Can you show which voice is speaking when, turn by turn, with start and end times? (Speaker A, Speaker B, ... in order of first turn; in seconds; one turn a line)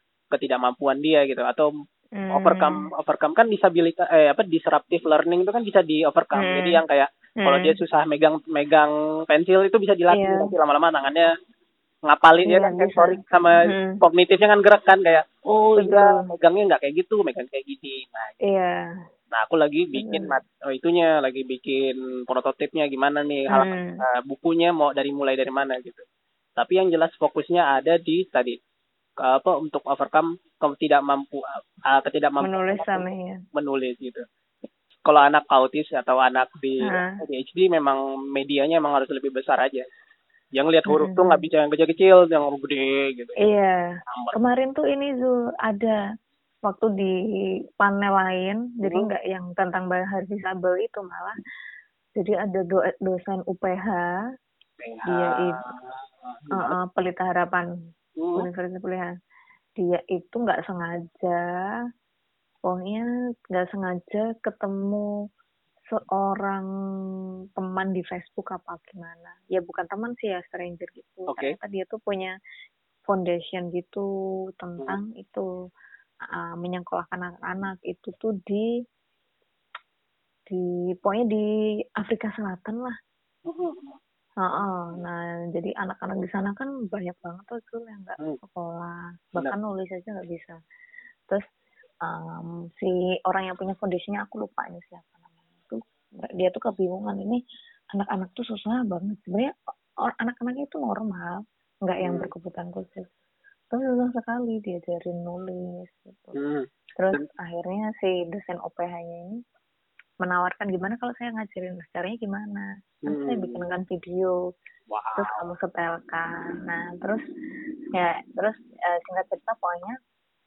Speaker A: 0.3-1.7
Speaker B: 2.2-2.8
Speaker A: 2.3-11.3
Speaker B: 6.3-6.8
Speaker B: 7.4-7.8
Speaker B: 10.1-10.5
Speaker A: 12.1-18.4
Speaker B: 12.4-14.0
Speaker B: 15.8-16.2
Speaker B: 18.4-18.9
Speaker A: 19.3-26.0
Speaker B: 19.9-20.4
Speaker B: 23.5-24.0
Speaker A: 26.6-28.6
Speaker A: 29.2-34.2
Speaker B: 32.4-33.4
Speaker A: 35.0-39.8
Speaker B: 36.8-37.2
Speaker A: 40.5-43.4
Speaker B: 40.9-41.4
Speaker B: 43.4-43.8
Speaker A: 44.0-44.3
Speaker B: 44.3-46.0
Speaker B: 46.6-47.1
Speaker B: 47.8-51.3
Speaker B: 52.1-54.2
Speaker A: 54.8-56.8
Speaker B: 55.1-55.6
Speaker B: 56.5-57.7
Speaker A: 58.2-58.5
Speaker B: 58.4-59.1
Speaker B: 59.8-61.4
Speaker B: 62.6-65.1
Speaker B: 65.9-66.7
Speaker B: 67.6-72.3
Speaker A: 71.3-71.6
Speaker B: 73.1-74.1
Speaker B: 74.6-75.4
Speaker B: 76.3-78.7
Speaker B: 80.5-81.5
Speaker B: 82.0-82.9
Speaker A: 83.5-84.0
Speaker B: 84.4-90.5
Speaker B: 92.0-97.4
Speaker B: 97.9-103.1
Speaker A: 102.0-102.3
Speaker B: 103.7-106.4
Speaker A: 106.3-107.2
Speaker B: 107.0-109.3
Speaker B: 110.2-114.4
Speaker A: 113.0-113.6
Speaker A: 114.9-115.4
Speaker B: 115.2-117.2
Speaker B: 117.9-120.0